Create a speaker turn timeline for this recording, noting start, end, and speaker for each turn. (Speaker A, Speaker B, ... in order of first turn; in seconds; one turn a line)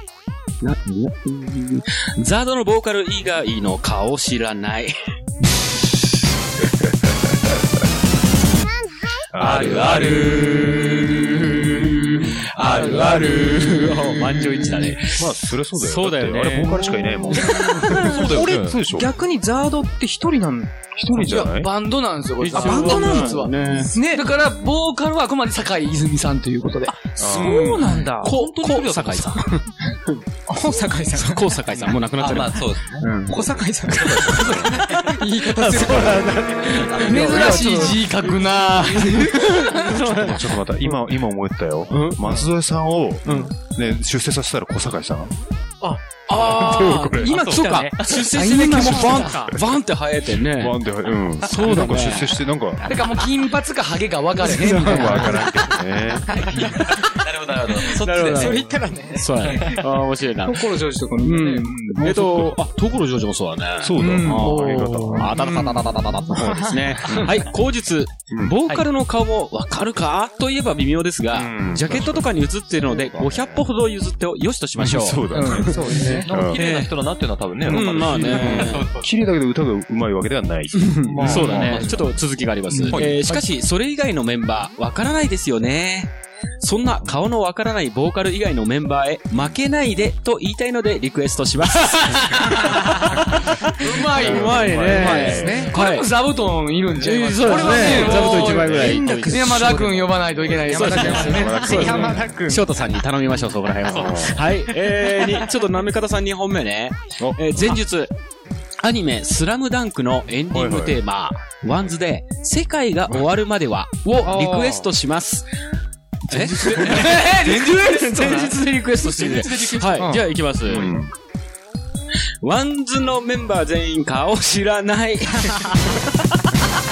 Speaker A: 0.6-4.9
Speaker B: 9.3-10.1
Speaker A: 9.4-18.1
Speaker C: 9.6-10.3
Speaker B: 15.2-19.1
Speaker D: 17.6-20.7
Speaker B: 20.9-21.7
Speaker E: 21.2-27.1
Speaker A: 22.4-23.9
Speaker D: 22.5-23.4
Speaker D: 23.9-24.3
Speaker B: 27.2-27.9
Speaker D: 27.3-28.3
Speaker A: 27.5-30.2
Speaker C: 28.2-29.4
Speaker D: 30.5-31.4
Speaker A: 31.1-33.4
Speaker C: 32.2-33.1
Speaker D: 33.0-36.4
Speaker A: 34.0-40.9
Speaker B: 34.3-34.7
Speaker B: 35.8-36.3
Speaker C: 37.0-37.3
Speaker E: 37.0-39.9
Speaker D: 37.1-38.0
Speaker B: 39.9-45.3
Speaker A: 41.9-42.4
Speaker A: 43.2-43.5
Speaker A: 46.2-50.8
Speaker B: 46.4-47.4
Speaker D: 47.2-49.3
Speaker C: 47.2-48.3
Speaker E: 48.2-49.5
Speaker B: 50.5-52.9
Speaker A: 51.4-52.4
Speaker E: 52.8-55.5
Speaker A: 54.4-55.5
Speaker B: 54.6-56.4
Speaker D: 54.7-55.3
Speaker E: 56.4-56.7
Speaker C: 56.6-58.7
Speaker A: 57.9-77.0
Speaker D: 58.3-59.7
Speaker C: 59.5-59.8
Speaker D: 60.4-62.0
Speaker B: 62.0-62.7
Speaker B: 63.8-65.4
Speaker D: 64.0-66.8
Speaker E: 64.4-65.2
Speaker B: 67.1-67.4
Speaker B: 68.3-68.6
Speaker B: 71.3-73.6
Speaker B: 74.8-76.6
Speaker D: 75.3-76.3
Speaker C: 76.0-79.1
Speaker A: 77.6-78.9
Speaker B: 78.1-82.1
Speaker D: 80.8-81.8
Speaker C: 81.1-82.1
Speaker A: 81.2-96.1
Speaker C: 82.9-83.2
Speaker E: 93.8-101.7
Speaker B: 94.2-95.8
Speaker D: 94.9-95.8
Speaker A: 97.0-99.9
Speaker D: 97.4-102.6
Speaker B: 98.3-99.0
Speaker B: 100.4-102.5
Speaker A: 100.7-108.1
Speaker B: 103.8-104.5
Speaker B: 107.2-107.8
Speaker A: 108.8-115.4
Speaker B: 110.5-111.0
Speaker D: 114.2-114.9
Speaker A: 116.3-120.9
Speaker E: 116.5-118.5
Speaker C: 118.2-118.5
Speaker C: 119.1-120.1
Speaker B: 120.7-121.1
Speaker A: 122.4-126.0